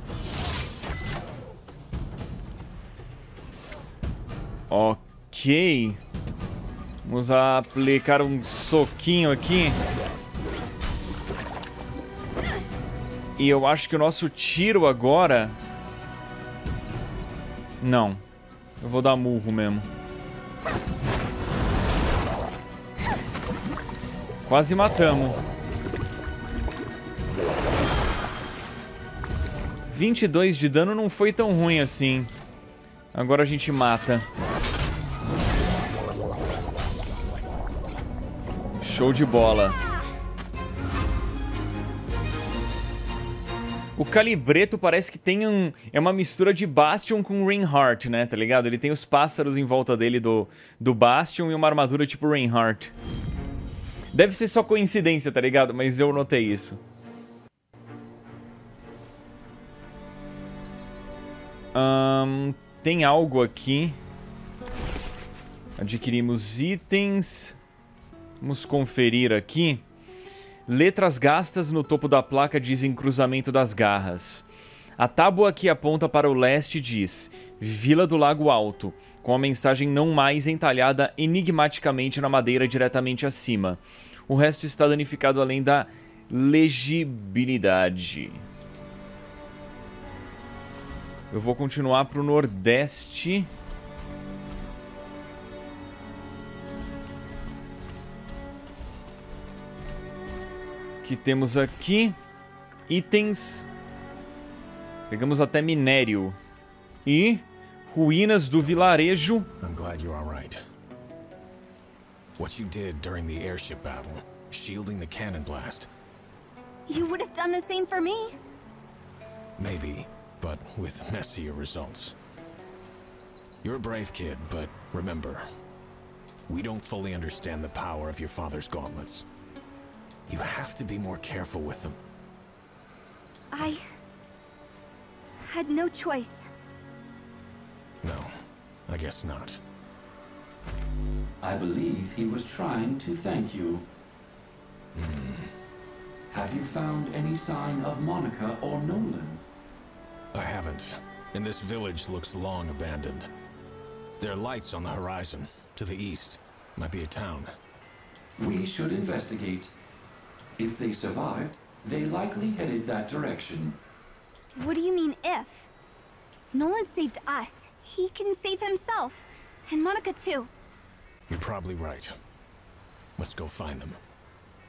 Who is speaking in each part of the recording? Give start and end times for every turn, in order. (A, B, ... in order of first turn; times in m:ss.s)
0:04.7-0:06.0 A
0:07.0-0:09.8 A
0:13.4-0:15.6 A
0:17.8-0:18.2 A
0:18.8-0:19.9 A
0:24.4-0:25.4 A
0:29.9-0:32.3 A
0:33.1-0:34.3 A
0:38.8-0:39.8 A
0:44.0-0:52.9 A
0:54.1-0:56.8 A
1:01.7-1:04.0 A
1:05.8-1:07.6 A
1:08.4-1:09.8 A
1:10.7-1:14.5 A
1:15.0-1:28.4 A
1:31.3-1:33.5 A
1:41.0-1:42.2 A
1:42.9-1:43.7 A
1:45.1-1:46.4 A
1:47.0-1:49.5 A
1:49.6-1:50.6 B
1:52.4-1:55.9 B
1:56.9-1:58.4 C
1:59.6-2:02.2 B
2:03.6-2:05.4 B
2:06.5-2:09.3 B
2:10.3-2:12.0 B
2:13.5-2:13.8 C
2:15.4-2:16.5 C
2:18.0-2:18.3 B
2:18.9-2:19.6 B
2:21.4-2:23.9 D
2:25.0-2:25.5 B
2:26.3-2:29.4 D
2:30.3-2:33.3 B
2:34.2-2:37.5 B
2:38.4-2:39.7 D
2:40.6-2:43.8 D
2:44.6-2:45.7 C
2:46.5-2:50.5 C
2:51.3-2:52.2 B
2:53.2-2:54.0 B